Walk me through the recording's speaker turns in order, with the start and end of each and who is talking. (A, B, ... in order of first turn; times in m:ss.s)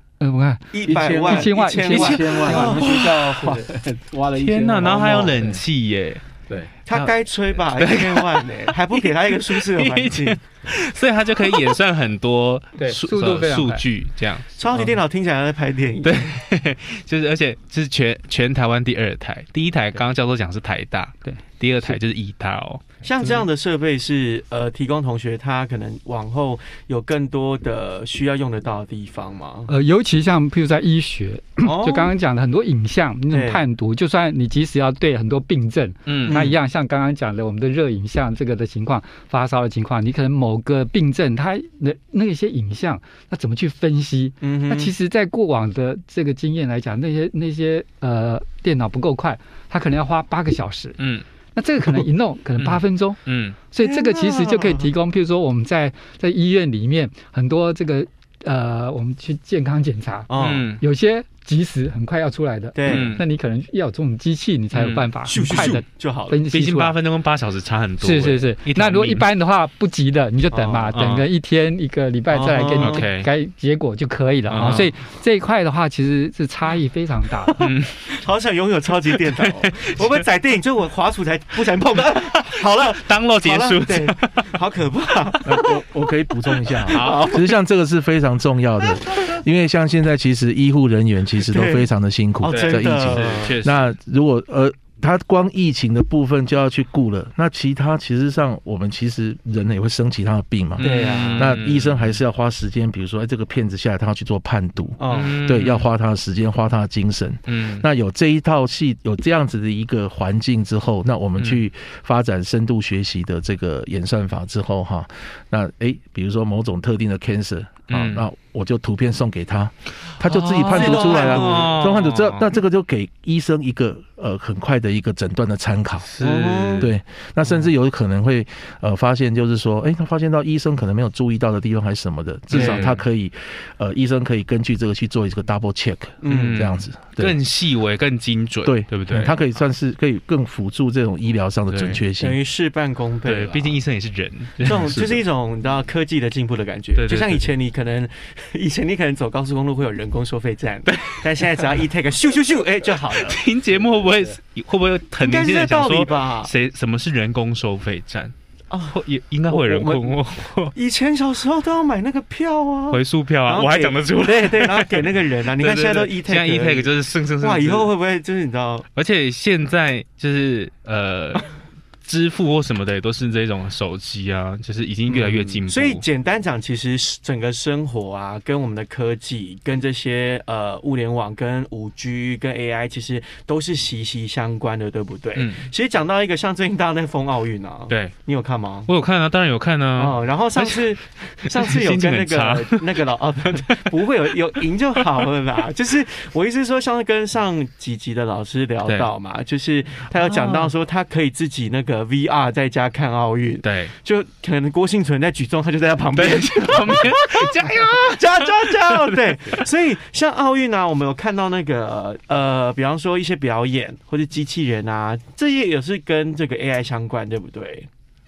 0:00.2-0:02.8 A
0:00.7-0:02.9 B
0:00.8-0:01.5 C
0:01.9-0:03.7 D
0:02.1-0:05.6 C
0:04.3-0:06.2 D
0:06.8-0:10.4 B
0:06.9-0:14.5 D
0:12.8-0:13.8 A
0:14.6-0:16.4 B
0:16.0-0:22.8 D
0:21.2-0:22.0 A
0:23.0-0:29.7 B
0:29.7-0:51.0 A
0:31.6-0:32.1 B
0:33.3-0:33.6 B
0:36.0-0:36.4 D
0:36.2-0:36.6 B
0:44.4-0:44.9 B
0:51.0-0:51.2 D
0:51.5-1:07.0 A
0:52.6-0:53.6 D
0:53.8-0:54.9 B
1:00.3-1:00.7 B
1:00.4-1:00.8 D
1:02.7-1:03.2 B
1:02.9-1:03.2 D
1:04.7-1:05.7 D
1:05.3-1:06.4 B
1:06.5-1:09.2 D
1:08.0-1:17.7 A
1:10.5-1:10.9 B
1:10.9-1:11.2 D
1:12.3-1:13.0 B
1:12.8-1:13.3 D
1:14.5-1:14.9 D
1:17.6-1:18.1 D
1:18.1-1:25.7 B
1:19.4-1:20.2 D
1:22.4-1:24.4 D
1:25.4-2:06.1 E
1:26.7-1:27.4 B
1:26.9-1:27.3 D
1:31.4-1:31.9 B
1:32.4-1:33.6 B
1:32.5-1:33.9 D
1:40.8-1:42.2 D
1:40.8-1:41.6 B
1:45.0-1:45.4 B
1:45.1-1:45.9 D
1:47.5-1:47.8 D
1:51.4-1:51.6 D
1:57.9-1:58.3 D
2:00.2-2:02.5 D
2:00.6-2:01.8 B
2:06.0-2:06.9 D
2:06.2-2:06.9 B
2:06.8-2:17.4 E
2:12.5-2:13.0 D
2:12.5-2:12.8 B
2:16.2-2:16.7 B
2:16.3-2:19.3 D
2:18.6-2:22.4 E
2:21.7-2:22.0 D
2:22.2-2:23.8 B
2:23.2-2:25.2 D
2:24.6-2:33.4 B
2:26.9-2:27.5 D
2:30.8-2:31.3 D
2:33.1-2:38.3 D
2:35.2-2:36.5 B
2:38.7-2:40.2 B
2:38.9-2:40.7 D
2:40.7-2:48.8 B
2:42.9-2:47.9 D
2:48.9-2:51.5 D
2:52.0-2:56.0 D
2:55.1-3:08.9 B
3:05.3-3:05.6 D
3:07.9-3:08.1 D
3:08.8-3:10.8 D
3:10.0-3:27.5 B
3:11.4-3:13.9 D
3:18.8-3:19.1 D
3:20.4-3:20.7 D
3:23.6-3:23.9 D
3:26.1-3:28.7 D
3:28.0-3:37.9 B